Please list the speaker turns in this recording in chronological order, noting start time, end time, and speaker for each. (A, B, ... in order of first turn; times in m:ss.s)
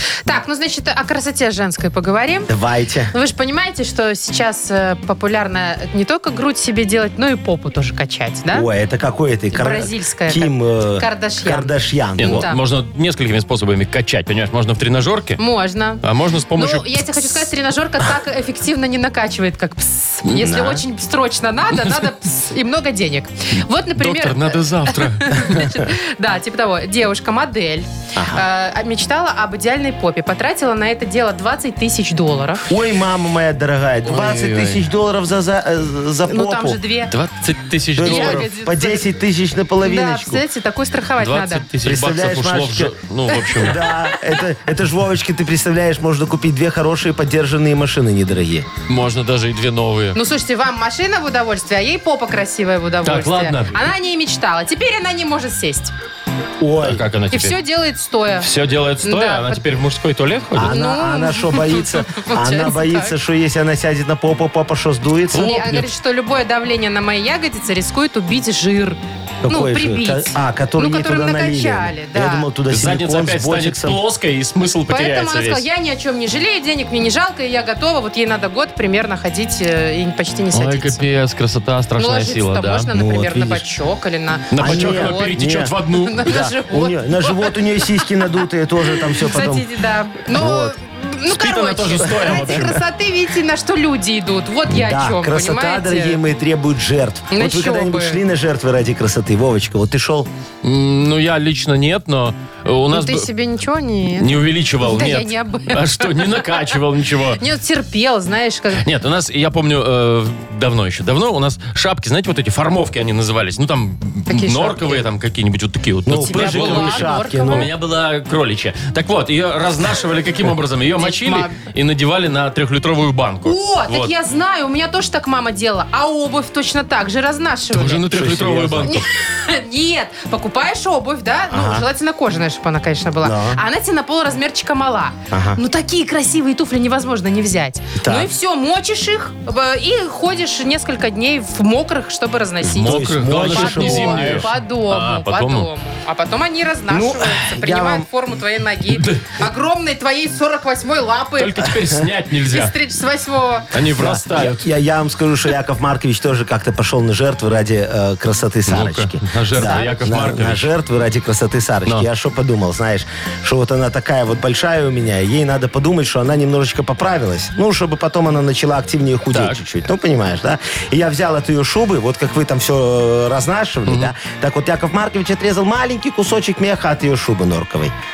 0:00.2-0:02.5 A
0:02.5-0:03.1 B
0:03.1-0:08.7 A
0:08.5-0:12.5 B
0:09.5-0:11.7 A
0:12.2-0:15.4 C
0:12.2-0:12.6 A
0:15.4-0:16.0 A
0:16.0-0:17.2 C
0:16.6-0:32.7 A
0:20.3-0:20.8 B
0:24.0-0:25.5 C
0:28.2-0:28.4 B
0:32.7-0:36.8 B
0:34.0-0:34.8 C
0:36.3-0:37.1 A
0:37.1-0:38.5 C
0:38.0-0:40.4 B
0:38.0-0:39.0 A
0:39.8-0:41.6 A
0:41.2-0:43.8 C
0:41.8-0:42.9 B
0:43.6-0:48.7 B
0:48.9-0:50.2 C
0:50.1-0:55.9 A
0:53.0-0:53.9 C
0:56.6-0:57.0 B
0:56.8-0:57.6 C
0:57.3-0:58.5 A
0:58.4-1:00.8 C
0:59.0-0:59.6 A
1:00.5-1:05.6 B
1:00.6-1:03.2 A
1:05.3-1:12.5 A
1:05.3-1:05.9 C
1:09.4-1:14.0 B
1:12.7-1:15.6 C
1:14.9-1:21.0 A
1:20.5-1:22.9 C
1:22.0-1:28.4 A
1:22.9-1:23.7 B
1:24.5-1:26.4 C
1:24.6-1:25.7 B
1:26.2-1:29.7 B
1:29.1-1:36.2 A
1:30.3-1:30.8 B
1:31.3-1:32.7 C
1:32.1-1:32.8 B
1:34.7-1:40.3 B
1:37.3-1:38.2 A
1:40.6-1:43.3 C
1:42.9-1:45.8 A
1:44.2-1:47.4 C
1:47.4-1:48.8 A
1:48.7-2:04.1 C
1:54.3-1:55.1 A
1:56.0-1:57.7 B
1:56.1-1:57.7 A
2:01.0-2:01.6 A
2:03.4-2:08.2 A
2:07.7-2:09.0 C
2:08.1-2:09.0 B
2:08.8-2:31.7 A
2:11.5-2:11.8 B
2:13.2-2:13.6 B
2:15.3-2:15.6 B
2:18.0-2:18.3 B
2:22.7-2:25.7 C
2:22.7-2:24.5 B
2:26.9-2:28.1 B
2:28.9-2:29.3 C
2:31.4-2:32.8 C
2:32.5-2:33.7 A
2:33.7-2:34.6 C
2:34.0-2:57.9 B
2:38.7-2:40.7 C
2:49.3-2:49.6 C
2:53.9-2:54.1 C